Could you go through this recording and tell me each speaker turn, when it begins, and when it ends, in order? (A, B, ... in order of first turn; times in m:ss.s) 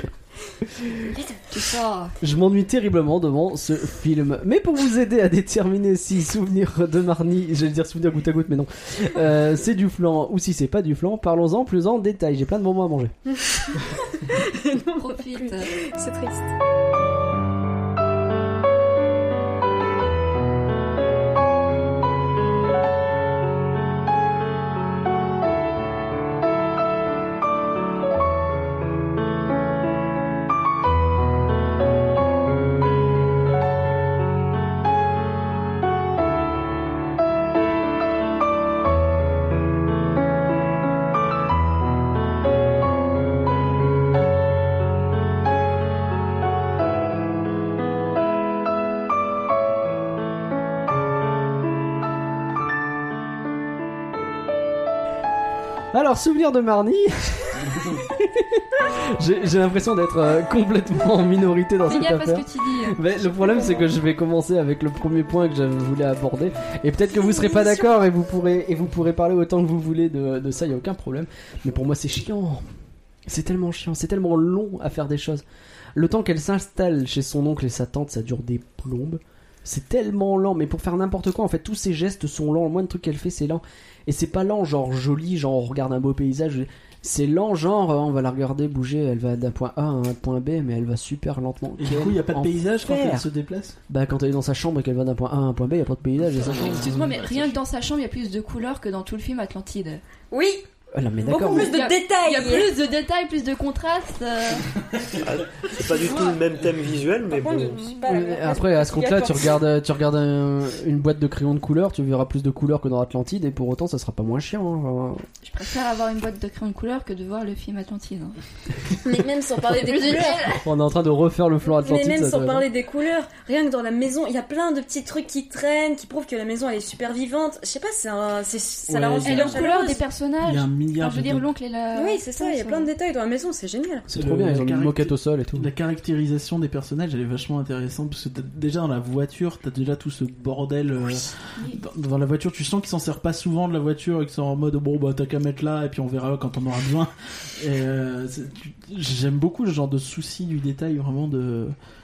0:01.5-0:02.2 A
0:02.2-0:13.1 B
0:13.5-0:16.5 C
0:15.0-0:15.8 A
0:55.9-1:12.7 B
1:01.8-1:03.8 A
1:07.2-1:07.7 C
1:13.3-1:15.4 B
1:16.0-1:33.3 B
1:31.8-1:33.8 D
1:33.9-1:36.9 B
1:36.4-1:40.0 A
1:36.4-1:37.6 D
1:40.3-1:40.6 C
1:40.9-1:41.7 B
1:41.2-1:42.7 C
1:41.3-1:45.0 A
1:45.1-1:47.8 E
1:47.3-1:49.6 C
1:48.1-1:55.3 B
1:55.4-1:58.4 A
1:59.0-2:00.6 C
1:59.7-2:00.7 A
2:00.6-2:02.7 B
2:01.7-2:10.1 C
2:08.9-2:09.7 D
2:09.2-2:12.9 A
2:10.4-2:11.5 D
2:11.9-2:14.1 C
2:14.1-2:15.7 B
2:14.1-2:31.8 D